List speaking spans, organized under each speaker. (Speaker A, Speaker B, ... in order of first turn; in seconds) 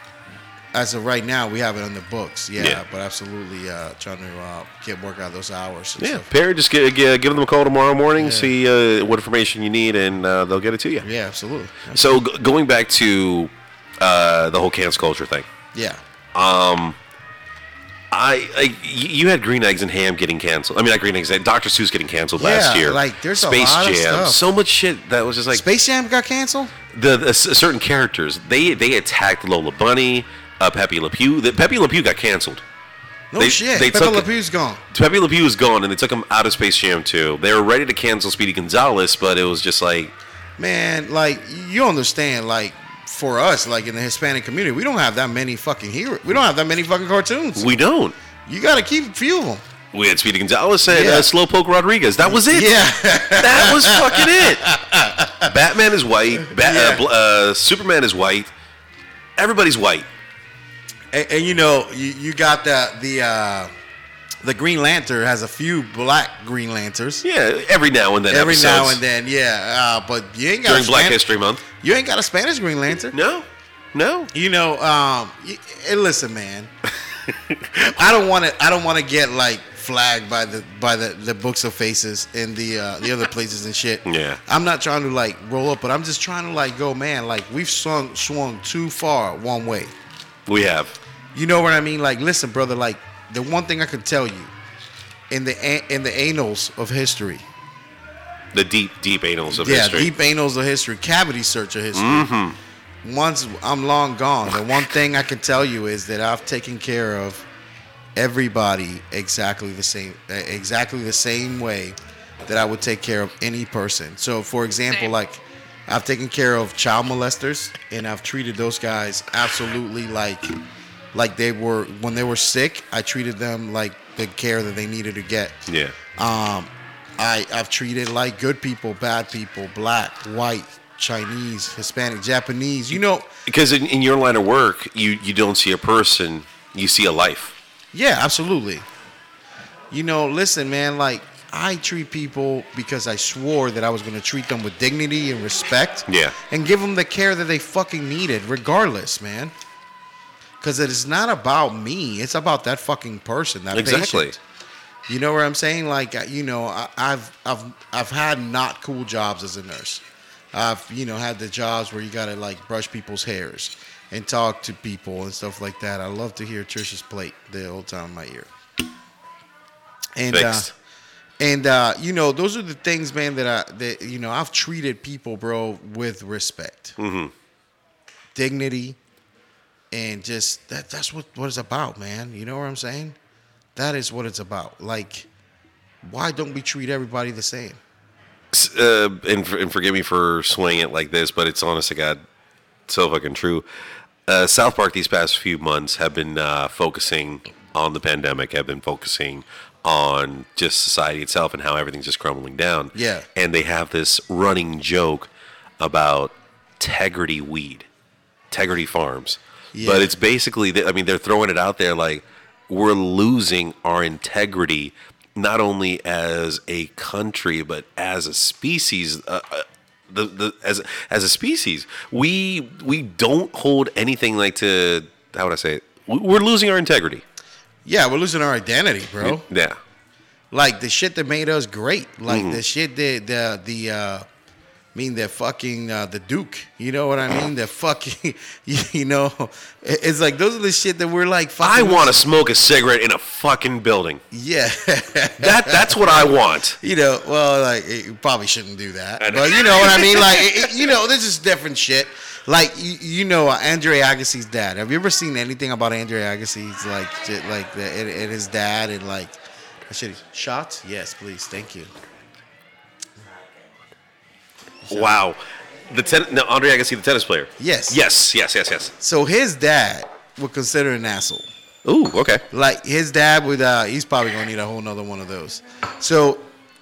Speaker A: 0.7-6.3, 8.2-8.5, 11.0-12.1, 15.7-16.0, 22.4-24.4, 25.5-26.7, 33.3-34.8, 40.6-47.7, 48.5-49.6, 50.9-51.3, 52.2-55.5, 56.4-57.0, 61.1-63.7, 64.4-67.2, 68.3-73.2, 74.3-76.7, 77.9-89.9, 91.3-94.5, 95.3-97.4, 99.5-102.3, 103.0-107.5, 108.2-120.5, 121.1-125.6, 126.2-133.3, 137.9-138.8, 139.9-149.5, 150.6-154.4, 155.1-160.0, 160.5-168.5, 170.2-170.7, 171.4-177.0, 178.3-179.0, 179.9-183.2, 183.8-185.3, 186.0-187.8, 202.9-203.3, 209.7-210.1, 227.8-229.4, 230.5-234.2, 234.9-242.2, 244.3-259.3, 259.9-261.9, 264.9-265.2, 267.6-268.0, 269.0-271.5, 272.5-276.4
Speaker B: 6.0-11.1, 11.9-15.5, 16.3-17.0, 18.1-25.6, 26.9-32.6, 33.4-34.3, 34.9-40.1, 47.5-48.1, 49.9-52.8, 53.4-54.7, 55.4-58.5, 59.4-60.1, 67.2-69.0, 70.6-71.6, 73.1-74.3, 77.2-77.9, 84.0-84.4, 90.5-90.9, 98.5-100.1, 101.9-102.6, 125.7-125.9, 133.4-137.5, 146.1-146.3, 153.7-154.3, 170.3-170.7, 177.0-177.3, 188.5-192.2, 192.9-193.7, 194.3-207.9, 208.5-227.2, 229.2-229.8, 232.3-232.6, 241.6-244.2, 245.4-246.8, 249.2-250.9, 264.9-268.9, 271.8-272.4